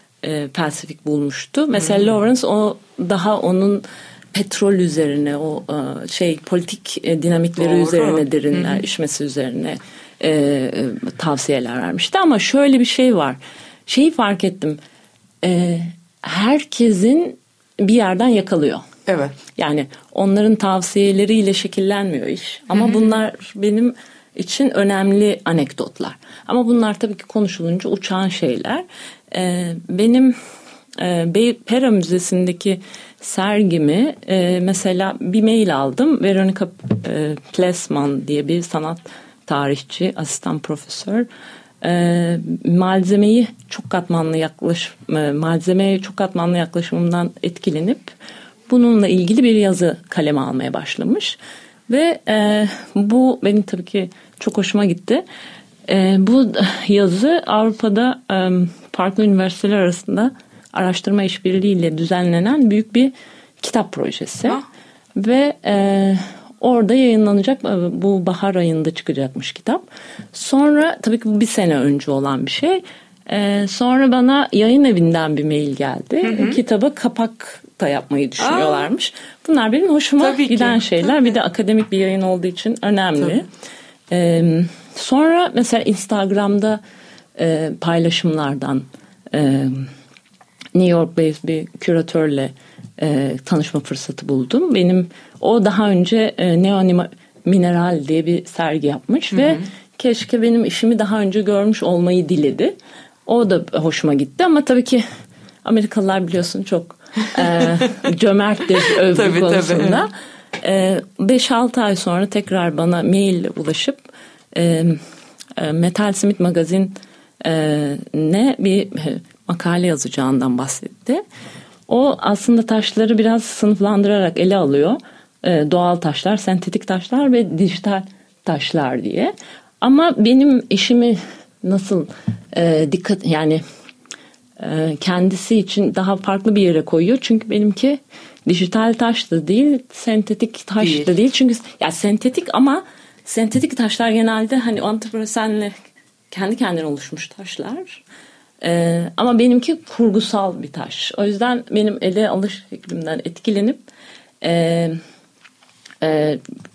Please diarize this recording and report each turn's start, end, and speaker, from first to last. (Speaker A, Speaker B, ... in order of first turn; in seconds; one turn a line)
Speaker A: 0.2-14.8
Speaker B: 1.8-2.1
Speaker B: 7.6-8.8
Speaker A: 15.4-18.9
Speaker B: 19.1-19.4
Speaker A: 19.6-30.4
Speaker B: 22.8-23.0
Speaker A: 31.0-41.3
Speaker A: 41.8-48.1
Speaker A: 48.7-51.4
Speaker A: 51.9-55.2
Speaker A: 55.9-64.6
Speaker A: 65.2-83.5
Speaker B: 76.2-76.6
Speaker B: 78.4-78.9
Speaker B: 80.2-81.3
Speaker A: 84.1-86.8
Speaker A: 87.4-89.9
Speaker A: 90.8-105.1
Speaker B: 99.3-99.7
Speaker A: 105.6-115.0
Speaker B: 107.4-107.7
Speaker B: 108.9-110.0
Speaker A: 115.6-121.2
Speaker A: 121.9-133.6
Speaker A: 134.6-145.8
Speaker B: 140.8-141.1
Speaker A: 146.3-148.0
Speaker A: 148.6-153.8
Speaker A: 154.4-155.0
Speaker A: 156.0-156.4